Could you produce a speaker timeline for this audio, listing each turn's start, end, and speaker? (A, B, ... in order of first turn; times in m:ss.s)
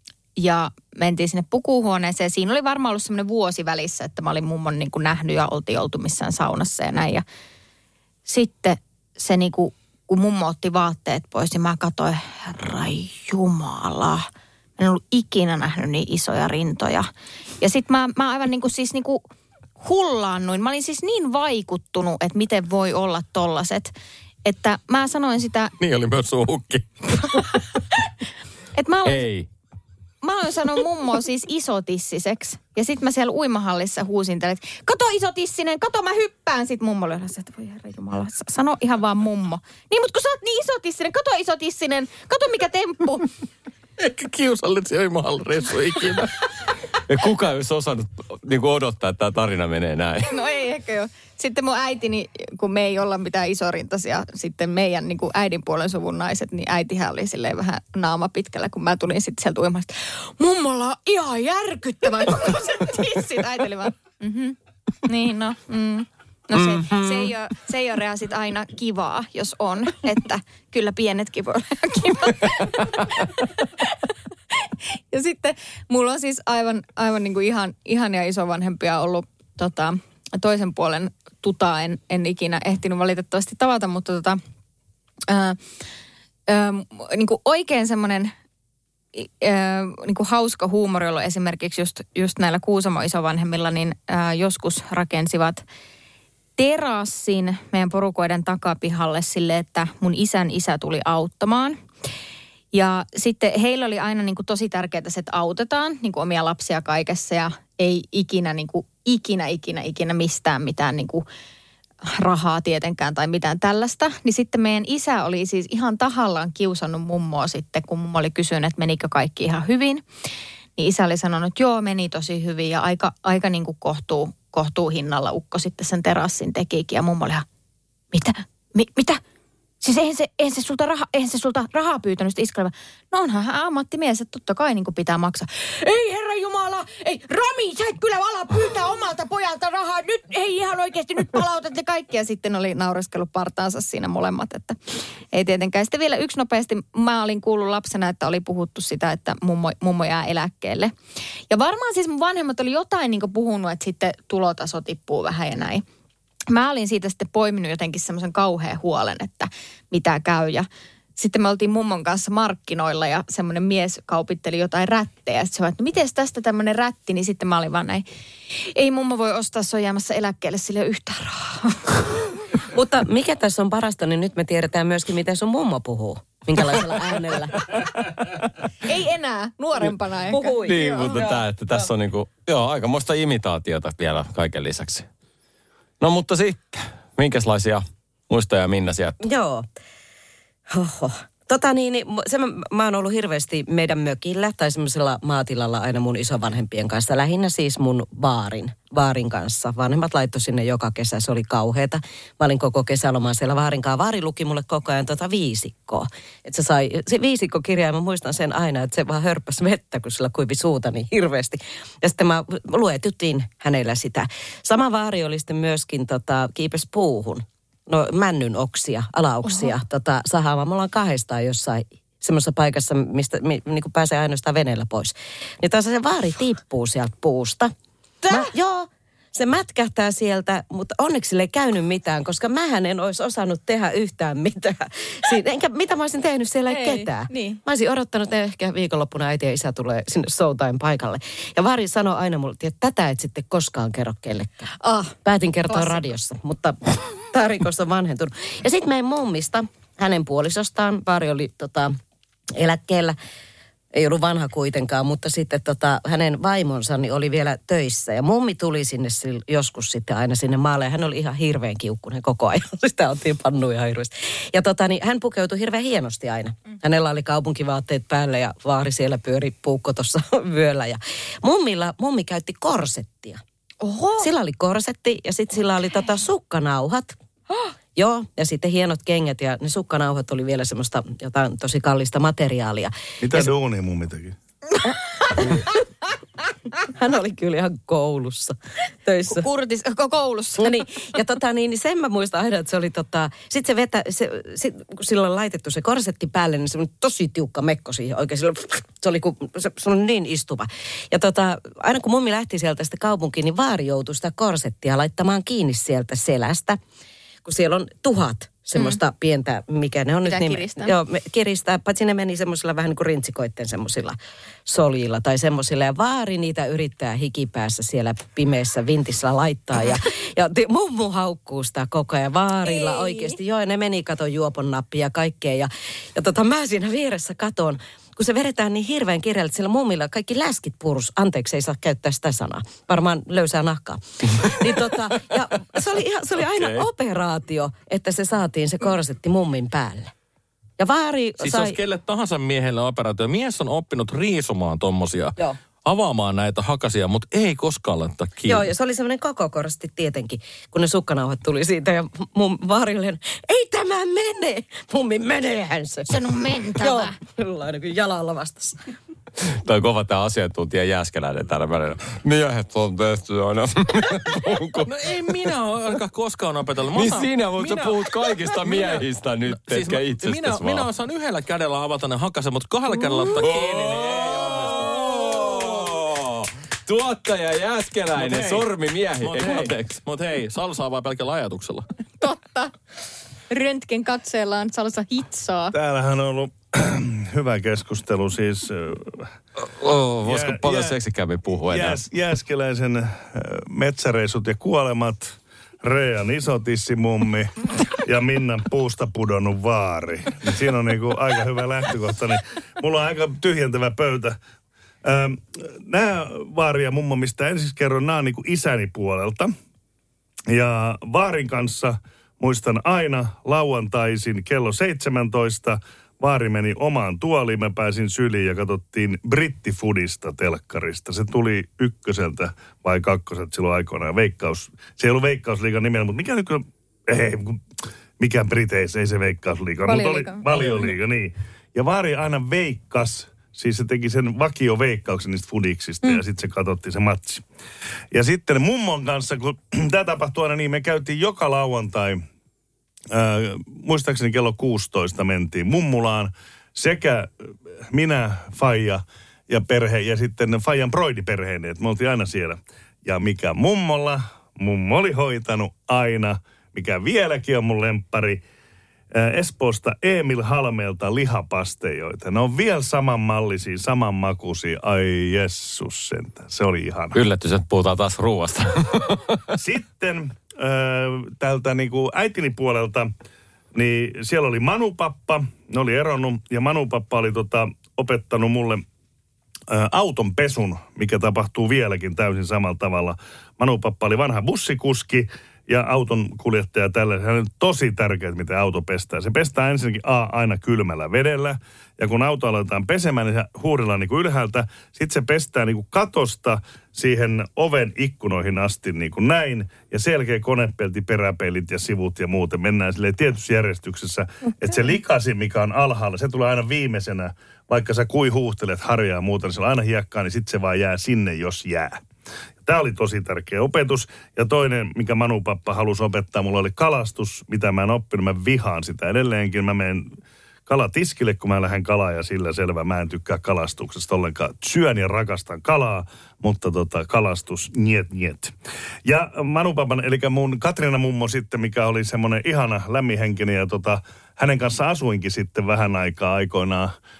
0:00.4-0:07.2 A
0:08.3-0:17.1 A
0:17.6-0:19.2 A
0:19.8-0:23.9 A
0:24.4-0:25.7 A
0:25.8-0:27.4 B
0:28.8-0:29.2 A
0:29.0-0:29.5 C
0:30.2-0:43.3 A
0:44.0-0:46.3 B
0:47.1-0:50.3 C
0:50.2-1:14.0 A
1:06.6-1:07.3 C
1:15.1-1:24.4 A
1:25.3-1:25.6 A
1:26.5-1:28.3 A
1:29.2-1:35.6 A
1:36.6-1:41.8 A
1:42.7-1:51.2 A
1:52.1-2:00.0 A
2:00.8-2:07.5 A
2:08.1-2:09.2 A
2:09.8-2:24.8 A
2:25.3-2:30.9 A
2:31.5-2:35.8 A
2:36.5-2:52.4 A
2:52.7-2:57.7 D
2:58.8-3:01.2 A
3:00.3-3:01.8 D
3:00.6-3:05.1 C
3:06.0-3:09.2 C
3:09.2-3:09.7 D
3:10.7-3:47.7 D
3:48.2-3:48.5 A
3:48.3-4:12.0 D
3:56.7-3:57.6 A
4:04.8-4:06.1 A
4:12.6-4:13.2 D
4:13.9-4:33.4 D
4:33.8-4:34.3 A
4:34.2-4:37.2 D
4:37.9-4:43.5 D
4:43.2-4:44.4 E
4:45.1-4:45.6 A
4:45.3-4:45.8 D
4:47.0-4:49.4 D
4:49.3-4:50.9 A
4:50.6-5:06.8 D
5:07.4-5:40.1 D
5:10.2-5:10.9 A
5:22.6-5:23.4 A
5:40.8-5:41.8 D
5:41.4-5:48.7 B
5:48.5-5:58.8 D
5:56.1-5:57.2 A
5:59.4-6:04.9 C
6:04.8-6:08.1 B
6:06.9-6:10.9 C
6:08.6-6:15.8 B
6:13.4-6:20.0 C
6:18.2-6:18.7 B
6:19.2-6:21.9 B
6:22.2-6:22.7 A
6:23.5-6:25.7 A
6:25.7-6:29.3 E
6:29.7-6:32.0 C
6:30.2-6:31.0 E
6:31.6-6:44.4 E
6:45.0-6:49.5 E
6:50.5-7:07.6 E
7:08.2-7:17.4 E
7:09.9-7:10.8 A
7:18.1-7:22.2 E
7:23.1-7:38.4 E
7:39.1-7:47.2 E
7:47.1-7:49.4 C
7:49.6-7:53.1 E
7:53.7-7:58.8 E
7:59.7-8:32.0 E
8:32.6-8:40.1 E
8:40.7-8:48.5 E
8:49.0-8:56.9 E